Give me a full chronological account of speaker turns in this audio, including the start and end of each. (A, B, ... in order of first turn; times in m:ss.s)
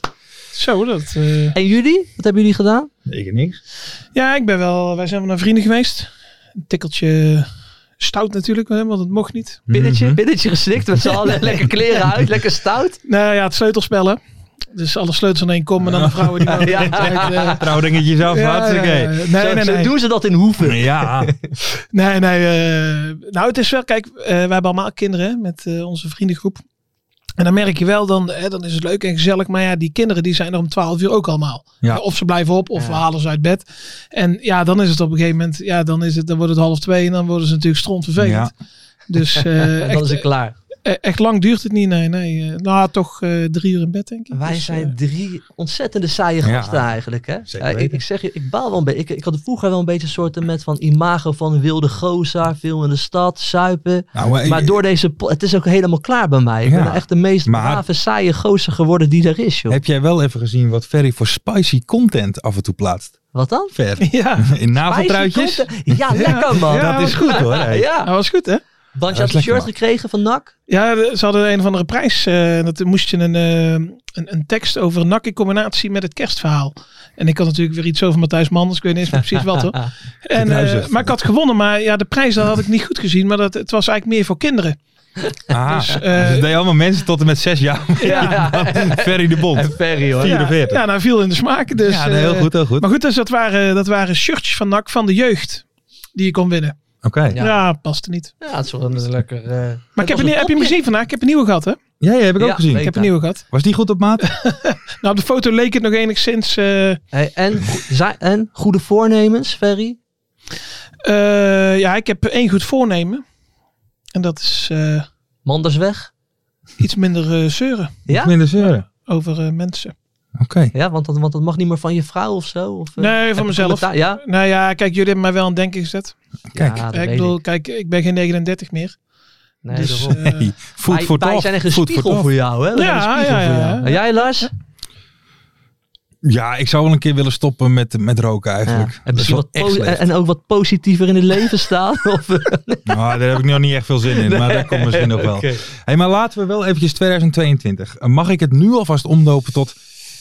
0:00.5-0:01.6 A
0:01.5-0:02.9 B
0:03.0-0:03.6 C
0:04.1-0:06.1 A
0:06.6-0:07.5 A
0:08.0-0:09.6 A
0:09.7-0:10.2 C
0:09.7-0:13.0 B
0:13.0-0:14.2 A
0:14.7-0:17.6 A
0:15.8-0:19.2 C
0:16.5-0:17.6 B
0:18.2-0:19.9 A
0:19.4-0:21.5 B
0:20.6-0:21.3 C
0:21.9-0:26.6 A
0:27.4-0:38.5 A
0:32.8-0:33.0 B
0:38.2-0:38.5 C
0:39.1-0:40.2 A
0:39.6-0:40.6 B
0:40.8-0:44.9 A
0:44.3-0:59.8 B
0:46.4-0:46.9 C
0:47.5-0:48.0 C
0:54.1-0:54.8 C
0:56.6-0:57.8 C
0:59.7-1:03.2 C
1:03.3-1:03.7 B
1:03.7-1:07.8 C
1:04.0-1:04.4 A
1:04.8-1:08.1 B
1:06.1-1:08.6 A
1:08.9-1:10.5 B
1:09.1-1:09.7 C
1:10.7-1:24.8 A
1:20.3-1:21.1 C
1:25.5-1:30.8 C
1:25.7-1:26.5 A
1:28.0-1:30.4 B
1:28.0-1:28.4 A
1:30.2-1:36.8 A
1:31.8-1:32.9 C
1:37.0-1:37.4 C
1:37.3-1:37.6 B
1:37.4-1:38.3 A
1:38.4-1:40.8 B
1:40.0-1:41.8 A
1:42.0-1:42.9 C
1:42.4-1:43.1 B
1:42.8-1:43.4 A
1:43.5-1:44.3 C
1:44.2-1:47.0 A
1:47.1-1:50.0 B
1:51.0-1:53.2 A
1:54.1-1:55.1 A
1:55.4-1:56.1 B
1:56.8-1:58.0 A
1:58.1-1:58.3 B
1:58.1-1:58.8 C
1:58.6-1:59.9 A
2:00.4-2:00.7 C
2:00.7-2:04.2 B
2:03.0-2:06.1 A
2:06.5-2:07.4 B
2:06.5-2:06.8 C
2:06.9-2:09.0 A
2:09.6-2:10.2 B
2:09.8-2:12.3 C
2:09.8-2:10.5 A
2:10.9-2:14.5 B
2:12.7-2:14.5 A
2:16.2-2:20.0 C
2:18.7-2:22.9 B
2:22.9-2:29.7 C
2:24.1-2:25.6 B